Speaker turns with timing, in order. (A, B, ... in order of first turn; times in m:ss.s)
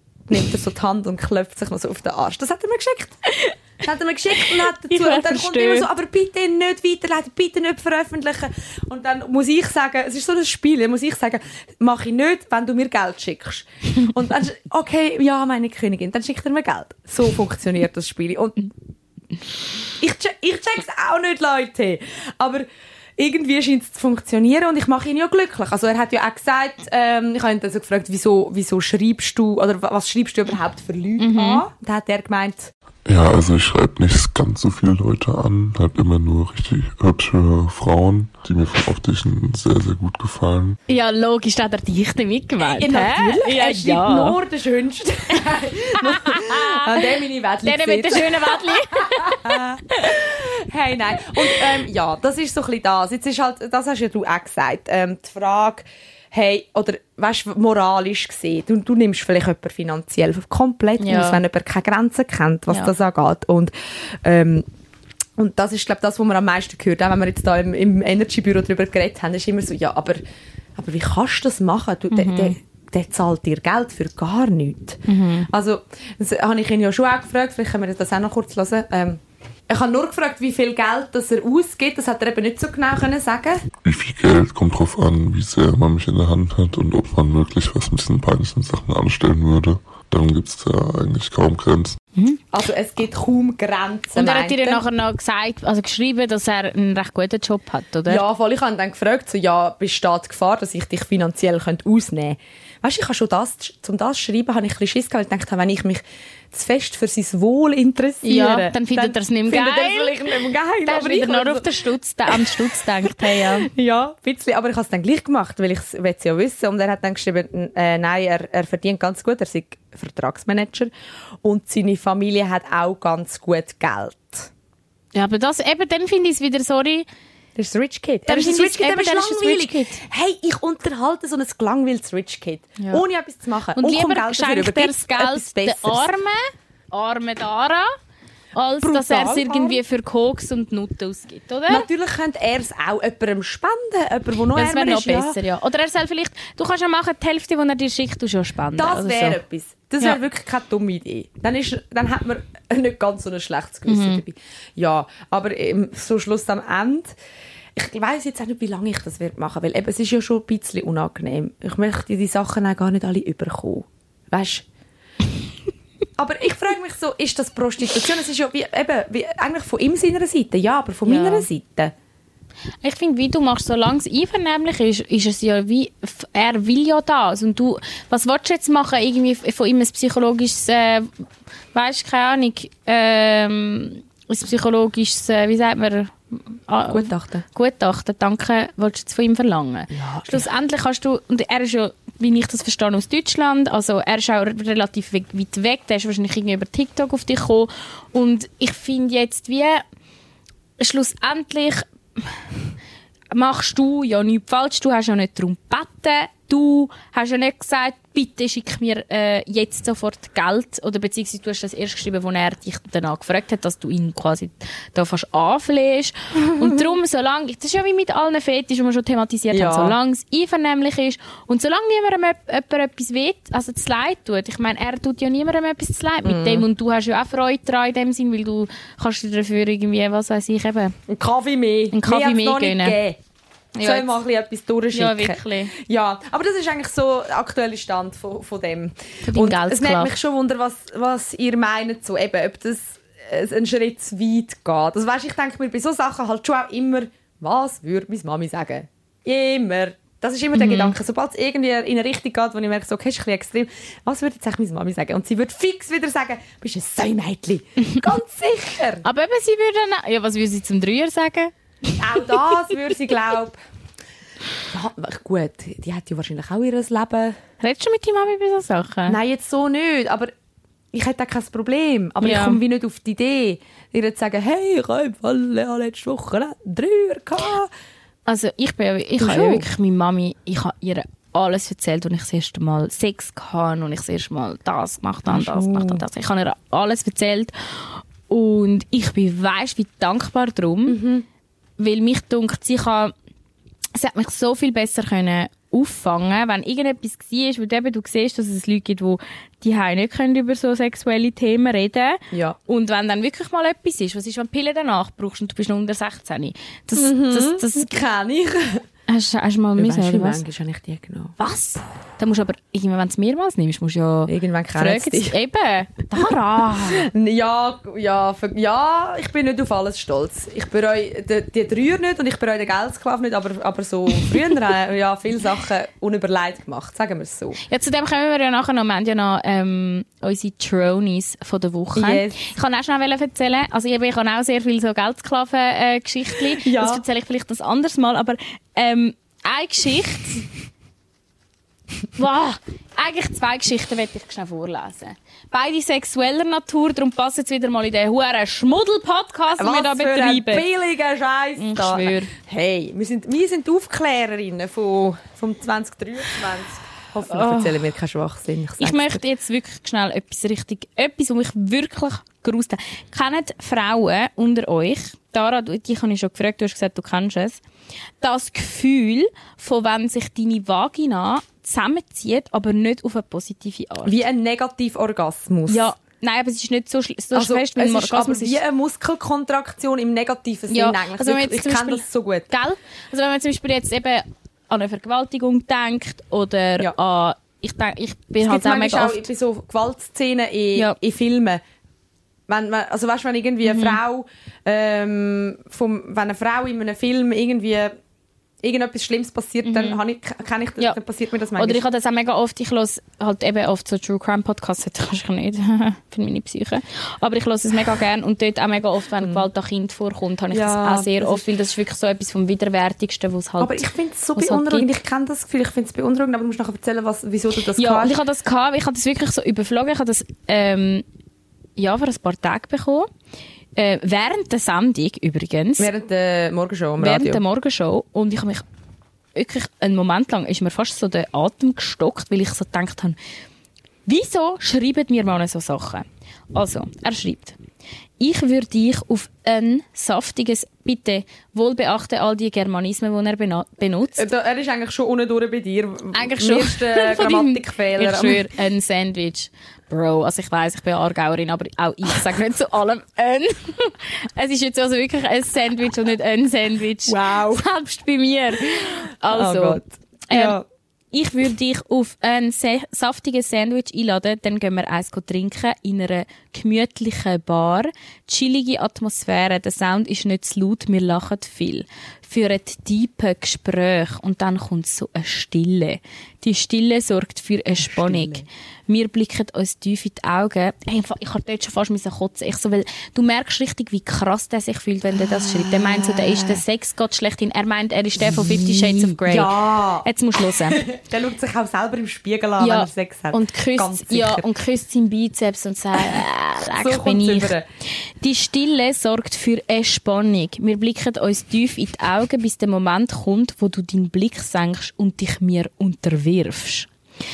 0:00.3-0:03.2 A
0:03.8-0:18.7 A
0:04.4-0:05.9 B
0:20.0-0:22.6 A
0:23.2-0:32.7 A
0:31.2-0:31.6 B
0:33.0-0:40.8 C
0:40.9-0:44.4 B
0:42.8-1:04.6 A
0:46.0-0:50.2 B
0:51.3-0:51.6 B
1:01.0-1:01.4 B
1:05.4-1:10.2 A
1:10.8-1:23.6 A
1:12.1-1:12.6 B
1:15.1-1:15.5 B
1:23.8-1:32.0 C
1:32.5-1:34.8 A
1:34.1-1:38.2 B
1:38.1-2:00.9 A
1:48.2-1:50.3 B
1:50.8-1:53.7 B
2:01.4-2:04.5 A
2:05.1-2:07.0 B
2:07.6-2:16.1 A
2:08.2-2:10.0 B
2:13.8-2:17.9 B
2:18.6-2:21.9 B
2:18.8-2:19.8 A
2:21.7-2:25.4 A
2:24.5-2:29.4 B
2:28.8-2:37.1 A
2:33.9-2:34.2 B
2:37.7-2:44.6 A
2:46.2-2:51.9 A
2:51.0-2:51.4 B
2:52.8-3:01.2 B
3:01.7-3:19.8 B
3:06.9-3:07.4 A
3:09.9-3:10.4 A
3:20.8-3:22.4 B
3:23.3-3:50.9 B
3:39.5-3:40.0 A
3:46.2-3:46.6 A
3:51.1-3:53.2 A
3:51.9-3:53.0 B
3:53.8-3:54.2 B
3:53.8-4:19.0 A
3:54.9-3:55.7 B
3:59.2-4:00.1 B
4:10.5-4:10.9 B
4:19.0-4:21.5 B
4:22.0-4:23.6 A
4:24.7-4:27.4 A
4:27.6-4:29.2 B
4:29.1-4:30.3 A
4:30.9-4:37.7 A
4:32.2-4:32.6 B
4:38.2-4:51.0 B
4:39.2-4:39.7 A
4:45.3-4:46.0 A
4:50.9-4:51.2 A
4:51.8-4:53.1 B
4:54.0-5:07.9 B
5:02.3-5:02.6 A
5:06.9-5:08.8 A
5:09.1-5:10.4 B
5:09.8-5:11.4 A
5:11.4-5:17.1 B
5:14.3-5:15.4 A
5:16.2-5:27.6 A
5:27.7-5:40.5 B
5:31.9-5:32.4 A
5:36.4-5:37.0 A
5:42.2-5:50.6 B
5:49.6-5:59.2 A
5:51.6-5:52.3 B
5:57.2-5:57.8 B
5:58.8-6:07.6 B
6:08.2-6:14.2 B
6:14.0-6:15.9 A
6:15.7-6:18.6 B
6:17.3-6:22.5 A
6:20.7-6:29.2 B
6:28.4-6:31.6 A
6:32.5-6:37.9 A
6:33.6-6:34.0 B
6:38.6-6:41.8 A
6:39.6-6:40.0 B
6:41.6-6:54.9 B
6:49.2-6:49.5 A
6:50.5-6:51.4 A
6:53.6-6:58.2 A
6:57.8-7:01.0 B
7:01.8-7:03.1 B
7:03.8-7:05.9 B
7:05.8-7:07.4 A
7:07.0-7:08.6 B
7:09.4-7:13.2 B
7:14.0-7:17.6 B
7:18.2-7:24.2 B
7:24.2-7:28.5 A
7:26.1-7:40.6 B
7:37.1-7:37.6 A
7:39.3-7:40.6 A
7:41.1-8:09.5 B
7:57.8-7:58.4 A
8:05.1-8:06.6 A
8:08.2-8:14.5 A
8:10.0-8:10.8 B
8:12.6-8:26.9 B
8:16.7-8:17.6 A